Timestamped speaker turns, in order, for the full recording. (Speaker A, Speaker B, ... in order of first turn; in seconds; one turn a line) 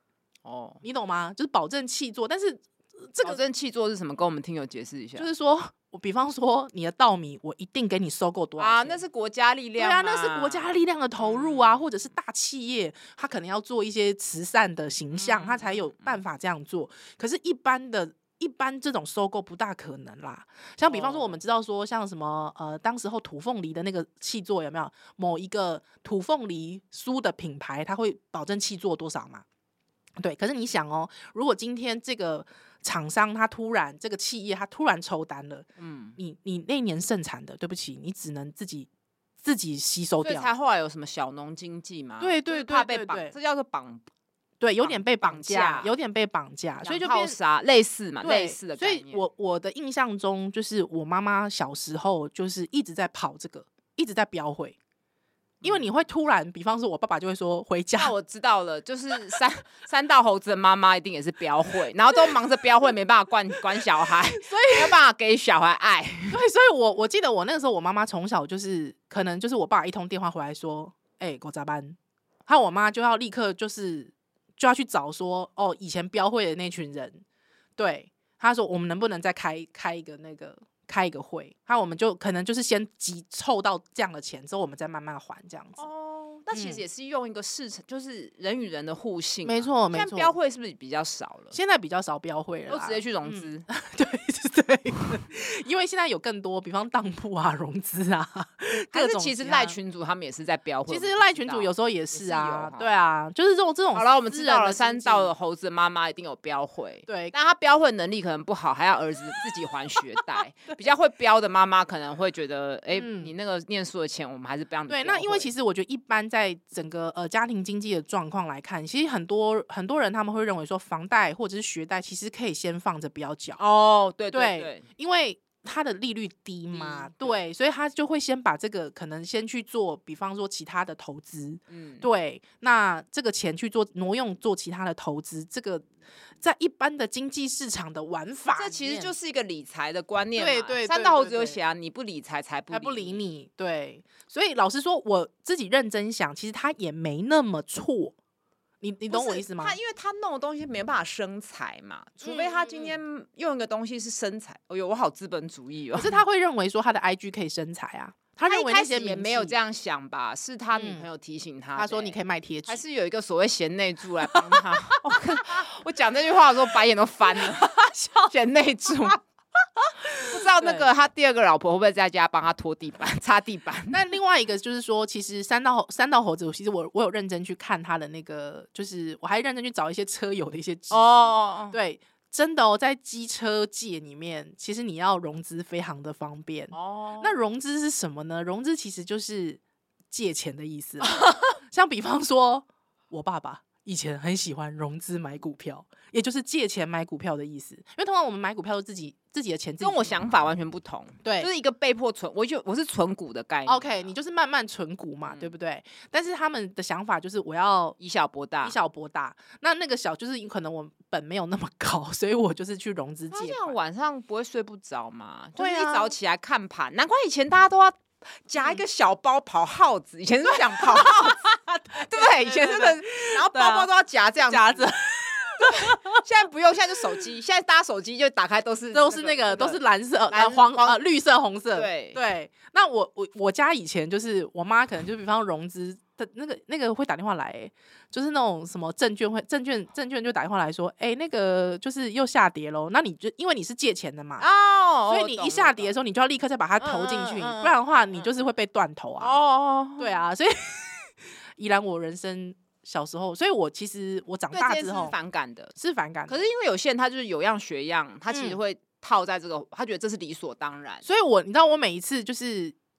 Speaker A: 0.4-0.8
Speaker B: 0.8-3.4
Speaker A: 3.2-5.3
Speaker B: 5.2-9.0
Speaker A: 8.6-11.9
Speaker B: 9.8-29.4
Speaker A: 15.1-16.2
Speaker A: 20.9-21.4
Speaker B: 30.2-38.9
Speaker A: 35.8-36.2
Speaker B: 39.4-40.5
Speaker A: 40.2-44.0
Speaker B: 42.2-43.3
Speaker B: 44.6-47.4
Speaker A: 44.8-45.9
Speaker A: 46.8-49.2
Speaker B: 48.2-54.8
Speaker A: 55.6-55.9
Speaker B: 55.6-58.1
Speaker A: 58.0-66.4
Speaker B: 64.3-65.0
Speaker B: 66.3-77.2
Speaker B: 77.8-85.8
Speaker A: 85.8-91.5
Speaker B: 86.5-86.8
Speaker B: 89.4-90.3
Speaker B: 91.5-99.8
Speaker A: 92.7-93.6
Speaker A: 98.8-102.9
Speaker B: 100.9-105.3
Speaker A: 103.9-115.5
Speaker B: 107.1-107.3
Speaker B: 112.9-113.3
Speaker B: 114.9-123.6
Speaker A: 123.6-124.8
Speaker B: 124.3-135.9
Speaker A: 126.7-127.4
Speaker A: 131.7-132.1
Speaker B: 136.4-139.1
Speaker A: 138.5-143.2
Speaker B: 140.4-141.6
Speaker B: 142.7-148.1
Speaker B: 148.8-149.8
Speaker A: 149.1-156.2
Speaker B: 152.2-153.0
Speaker B: 155.9-159.6
Speaker A: 158.4-169.2
Speaker B: 160.7-161.1
Speaker B: 161.8-162.8
Speaker B: 164.3-165.6
Speaker B: 167.3-168.3
Speaker B: 168.9-169.2
Speaker B: 169.8-170.9
Speaker A: 170.3-174.0
Speaker B: 173.9-200.3
Speaker A: 180.9-181.8
Speaker A: 186.7-187.4
Speaker A: 191.0-191.6
Speaker A: 199.8-204.0
Speaker B: 201.2-201.5
Speaker B: 203.7-208.0
Speaker A: 208.0-208.8
Speaker B: 208.6-213.7
Speaker A: 213.3-221.4
Speaker B: 215.6-216.1
Speaker B: 218.6-218.8
Speaker B: 220.7-223.9
Speaker A: 222.0-224.9
Speaker B: 224.5-226.2
Speaker A: 225.6-231.0
Speaker B: 228.9-244.4
Speaker A: 231.7-232.2
Speaker A: 244.4-245.9
Speaker B: 245.1-249.4
Speaker A: 246.8-248.3
Speaker A: 249.2-250.2
Speaker B: 250.0-255.2
Speaker A: 254.5-255.7
Speaker B: 255.7-256.4
Speaker A: 256.3-261.0
Speaker B: 258.3-258.6
Speaker B: 261.0-262.7